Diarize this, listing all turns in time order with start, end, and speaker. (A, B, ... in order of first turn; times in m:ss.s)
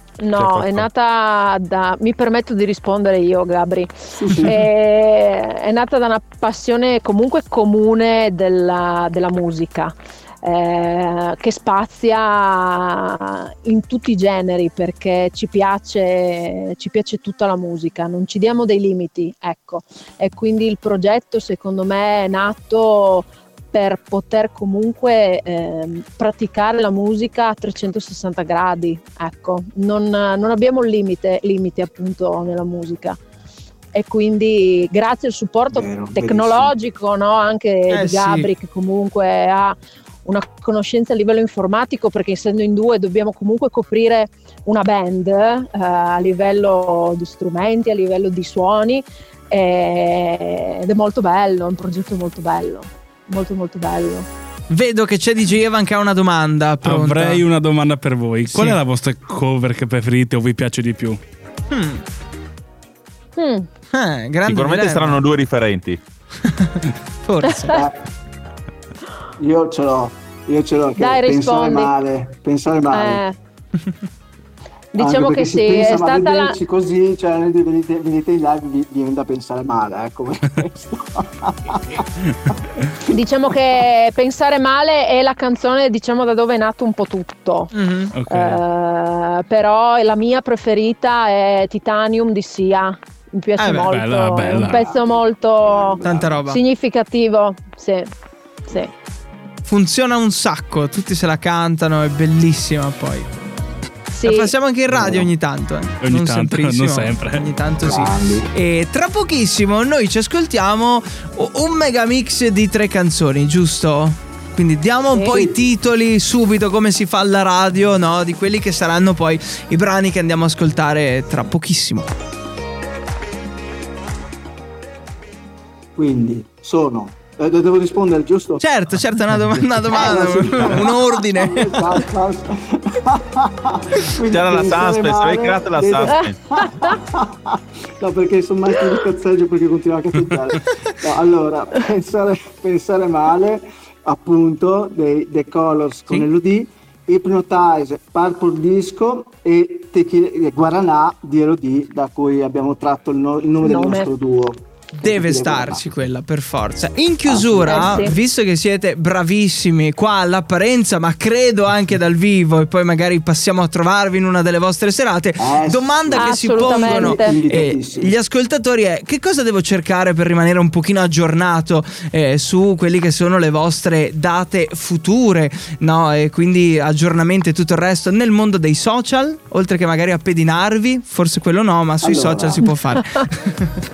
0:00.2-0:33.2 A
0:00.4-0:00.9 B
0:04.2-0:04.7 C
0:33.9-0:54.3 A
0:35.7-0:36.7 C
0:37.9-0:38.5 D
0:54.7-0:57.4 D
0:56.8-1:01.2 E
0:58.5-0:58.8 D
1:01.7-1:02.0 D
1:03.4-1:03.7 A
1:03.9-1:05.2 D
1:04.5-1:06.0 B
1:06.4-1:07.8 D
1:07.6-1:08.0 C
1:09.4-1:13.2 C
1:11.0-1:11.9 A
1:12.9-1:13.4 A
1:14.9-1:16.6 A
1:15.0-1:22.8 C
1:23.1-1:27.7 A
1:27.7-1:28.1 D
1:28.1-1:28.6 E
1:28.3-1:38.1 A
1:33.6-1:33.9 D
1:33.8-1:34.9 E
1:34.6-1:36.4 C
1:36.0-1:36.6 D
1:38.7-1:38.9 A
1:39.7-1:43.5 D
1:44.1-1:44.5 A
1:44.2-2:02.1 D
1:44.9-1:45.3 C
1:46.0-1:47.5 E
1:47.8-1:48.5 C
1:55.1-1:55.5 A
2:06.0-2:08.6 C
2:08.6-2:12.0 D
2:09.9-2:36.1 C
2:14.3-2:16.4 B
2:33.6-2:34.1 A
2:35.0-3:03.7 D
2:37.2-2:38.1 C
2:37.6-2:38.1 A
2:45.4-2:48.1 C
2:46.1-2:47.4 A
3:02.0-3:02.7 C